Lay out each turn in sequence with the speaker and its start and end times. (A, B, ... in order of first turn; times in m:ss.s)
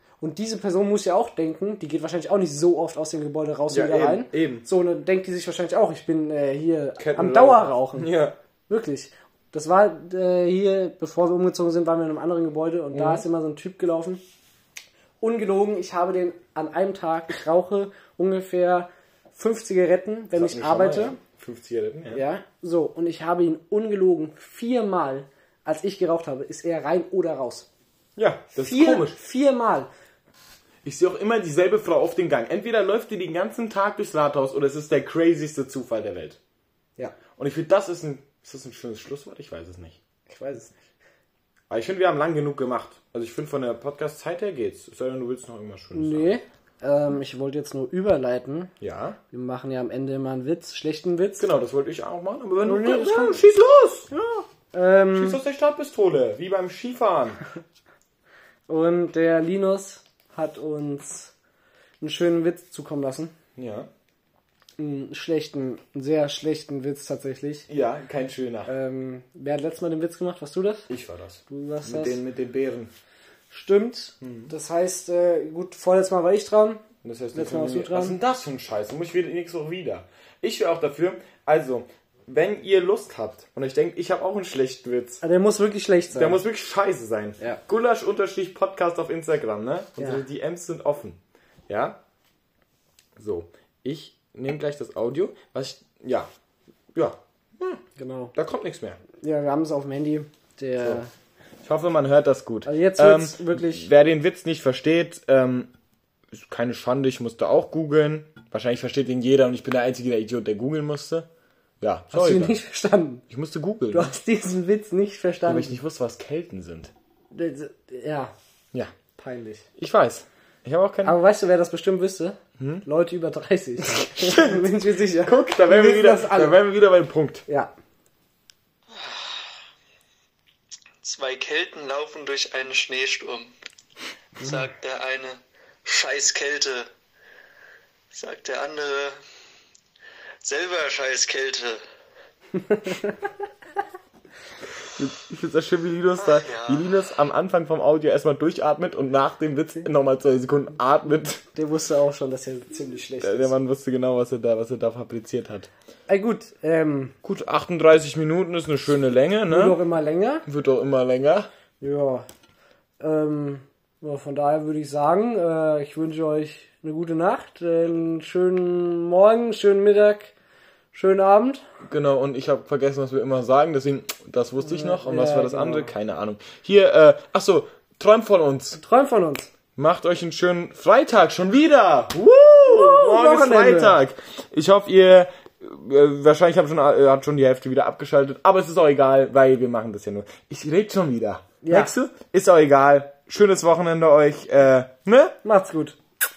0:00.2-0:08.1 A
0:03.7-0:04.7 B
0:07.0-0:08.4 B
0:08.7-0:14.2 A
0:12.9-0:13.2 B
0:15.2-0:21.2 A
0:20.3-0:22.2 B
0:22.1-0:27.7 A
0:28.2-0:29.2 B
0:28.6-0:29.9 A
0:30.8-0:36.4 B
0:37.4-0:40.0 B
0:40.3-0:40.7 A
0:41.7-0:46.4 B
0:46.0-0:48.7 A
0:48.8-0:49.2 B
0:49.3-0:51.5 A
0:51.4-0:54.1 B
0:52.6-0:53.4 A
0:54.1-0:55.4 A
0:55.1-0:57.4 B
0:58.7-1:01.3 A
1:02.0-1:03.4 A
1:03.6-1:03.9 B
1:04.8-1:07.7 A
1:07.7-1:08.7 B
1:08.7-1:10.9 A
1:10.9-1:12.9 B
1:11.5-1:12.2 A
1:13.5-1:16.8 A
1:14.2-1:14.5 B
1:17.0-1:25.2 B
1:17.3-1:18.2 A
1:25.2-1:26.4 A
1:26.1-1:32.0 B
1:30.0-1:30.2 A
1:33.2-1:36.3 B
1:36.9-1:37.8 B
1:38.0-1:38.3 A
1:38.3-1:39.0 B
1:39.2-1:41.1 A
1:41.6-1:45.7 B
1:42.6-1:43.9 A
1:46.3-1:51.3 B
1:51.8-1:52.6 B
1:52.1-1:53.3 A
1:53.3-1:54.2 B
1:53.9-1:55.8 A
1:55.4-1:56.9 B
1:57.3-1:58.3 A
1:59.2-1:59.7 A
1:59.8-2:01.2 B
2:01.0-2:06.6 A
2:02.6-2:02.9 B
2:03.9-2:07.4 B
2:09.0-2:09.2 C
2:11.0-2:13.5 C
2:14.4-2:16.9 C
2:18.1-2:19.2 C
2:20.4-2:21.8 C
2:22.6-2:23.1 A
2:24.8-2:31.4 B
2:26.3-2:26.9 C
2:31.6-2:33.5 A
2:33.2-2:35.7 B
2:36.1-2:37.2 A
2:37.2-2:39.8 B
2:39.5-2:40.5 A
2:40.5-2:41.5 B
2:41.8-2:42.3 A
2:43.0-2:50.3 A
2:50.9-2:51.6 A
2:51.9-2:58.8 B
2:54.6-2:55.9 A
2:58.8-2:59.5 A
2:59.8-3:15.4 B
3:02.7-3:04.0 A
3:11.6-3:12.0 A
3:15.4-3:16.0 A